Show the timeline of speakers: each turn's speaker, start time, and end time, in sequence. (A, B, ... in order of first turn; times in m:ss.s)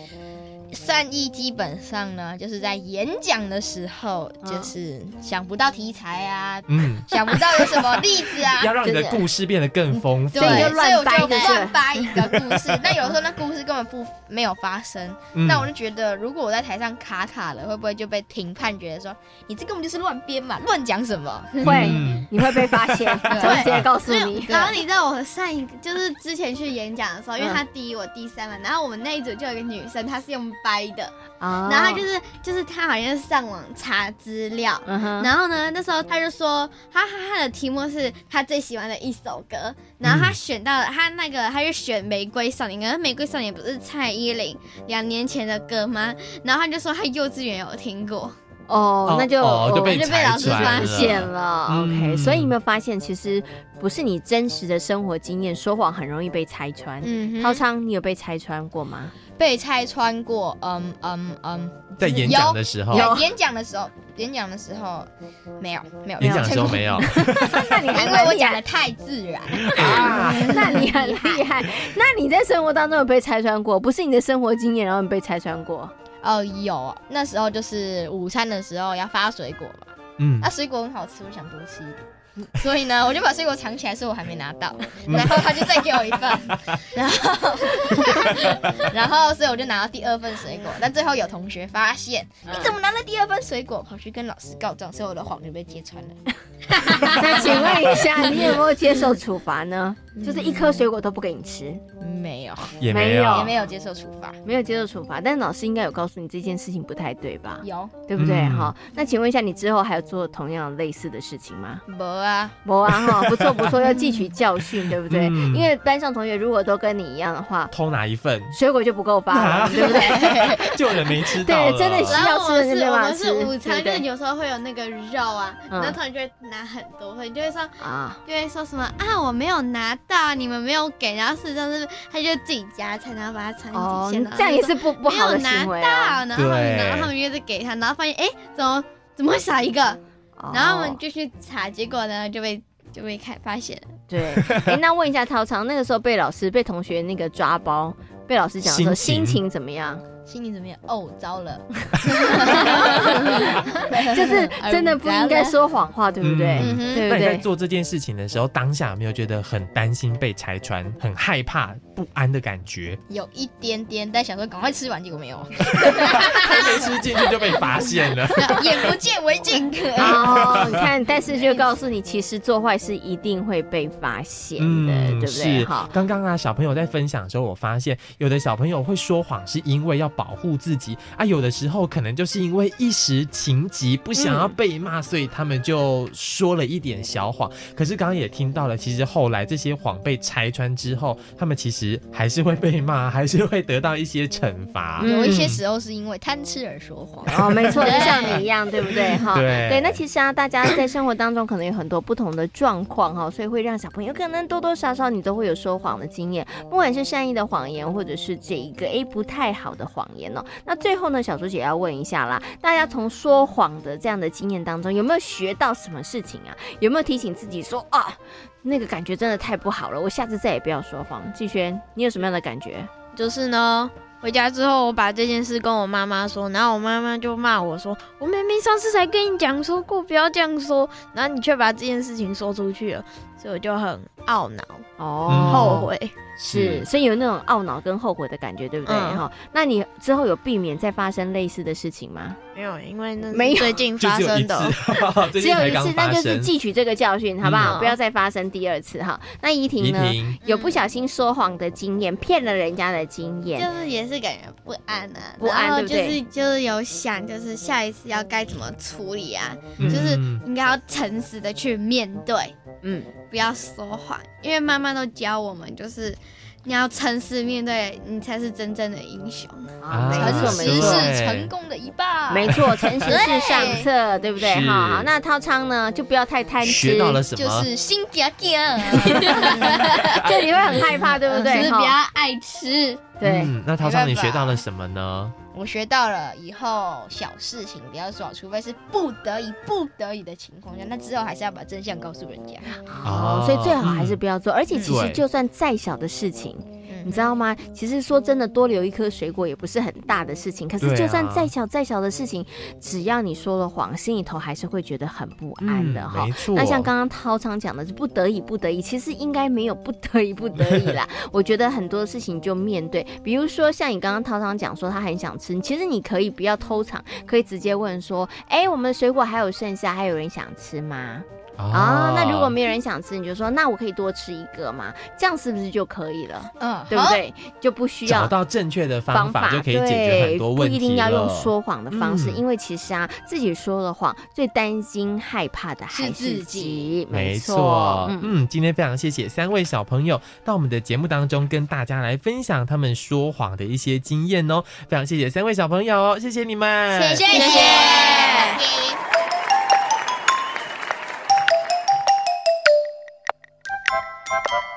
0:00.7-0:08.8 A
0:04.4-0:04.7 B
0:06.7-0:10.6 C
0:08.8-0:09.2 B
0:09.9-0:21.8 A
0:10.3-0:12.4 B
0:10.6-0:12.2 D
0:15.3-0:15.7 C
0:21.6-0:22.3 C
0:21.6-0:24.8 B
0:22.5-0:23.6 A
0:23.3-0:48.3 D
0:31.4-0:32.0 B
0:34.8-0:35.3 B
0:40.0-0:40.4 C
0:48.7-0:59.1 B
0:49.0-0:52.5 C
0:49.7-0:51.3 D
0:57.0-0:57.6 D
0:59.4-1:05.1 A
1:02.0-1:03.1 C
1:02.9-1:03.3 B
1:05.6-1:11.4 A
1:06.2-1:07.4 C
1:06.2-1:08.6 B
1:09.5-1:10.6 C
1:09.7-1:15.9 B
1:16.2-1:22.0 A
1:20.2-1:20.5 C
1:22.5-1:36.2 A
1:25.0-1:25.7 C
1:36.7-1:38.6 A
1:37.1-1:41.8 B
1:40.2-1:40.8 A
1:42.0-1:44.4 A
1:42.8-1:43.6 C
1:42.9-1:43.6 B
1:44.4-1:51.8 B
1:47.6-1:48.0 A
1:48.1-1:48.7 C
1:51.9-1:52.6 A
1:52.6-1:57.7 B
1:52.9-1:53.8 C
1:54.8-1:55.7 C
1:57.7-1:58.5 C
1:58.5-2:00.6 B
1:59.3-2:02.3 C
1:59.8-2:00.3 A
2:01.3-2:04.0 B
2:02.1-2:07.7 D
2:05.7-2:06.0 B
2:07.8-2:08.2 B
2:08.2-2:20.0 D
2:13.7-2:16.2 B
2:16.4-2:17.1 C
2:20.4-2:21.0 B
2:20.5-2:23.9 D
2:24.1-2:30.0 B
2:24.3-2:24.8 C
2:28.6-2:29.4 C
2:30.3-2:35.6 A
2:32.3-2:37.4 B
2:36.2-2:43.0 C
2:36.6-2:37.1 A
2:43.1-2:51.7 A
2:45.8-2:49.0 C
2:49.9-2:55.9 B
2:50.3-2:50.8 C
2:54.6-3:15.6 C
3:04.2-3:04.5 B
3:15.0-3:18.4 A
3:15.0-3:15.5 B
3:17.2-3:42.9 B
3:18.1-3:18.4 C
3:19.3-3:20.0 C
3:43.1-3:54.9 E
3:55.0-4:02.4 B
3:55.2-3:55.9 C
3:55.5-3:56.1 E
3:56.5-3:56.9 C
3:58.8-3:59.2 E
4:02.5-4:04.8 E
4:03.3-4:03.8 B
4:04.0-4:06.5 C
4:05.3-4:13.7 B
4:07.4-4:07.8 C
4:07.6-4:08.0 E
4:09.8-4:10.4 C
4:10.4-4:10.8 D
4:13.5-4:22.6 D
4:15.4-4:16.2 B
4:19.8-4:20.4 C
4:22.8-4:23.1 B
4:23.3-4:29.6 D
4:29.8-4:31.1 B
4:29.9-4:31.5 C
4:30.1-4:33.9 A
4:32.3-4:37.2 B
4:32.4-4:33.1 C
4:33.3-4:33.7 D
4:34.4-4:35.1 C
4:36.6-4:37.7 C
4:37.2-4:40.3 A
4:38.9-4:39.5 B
4:40.2-4:42.0 B
4:40.2-4:40.9 C
4:41.0-4:41.7 A
4:41.3-4:43.0 D
4:43.2-4:43.5 B
4:43.2-4:45.4 C
4:43.8-4:44.6 A
4:45.5-4:52.7 A
4:52.9-5:28.4 B
4:53.0-4:54.2 C
4:54.8-4:55.2 C
4:56.9-4:57.3 A
5:00.8-5:01.5 C
5:05.6-5:06.9 C
5:21.6-5:22.5 C
5:26.6-5:27.2 A
5:28.0-5:32.4 C
5:29.1-5:38.3 B
5:35.9-5:37.0 A
5:37.1-5:47.4 C
5:46.9-5:49.0 A
5:47.3-5:48.6 E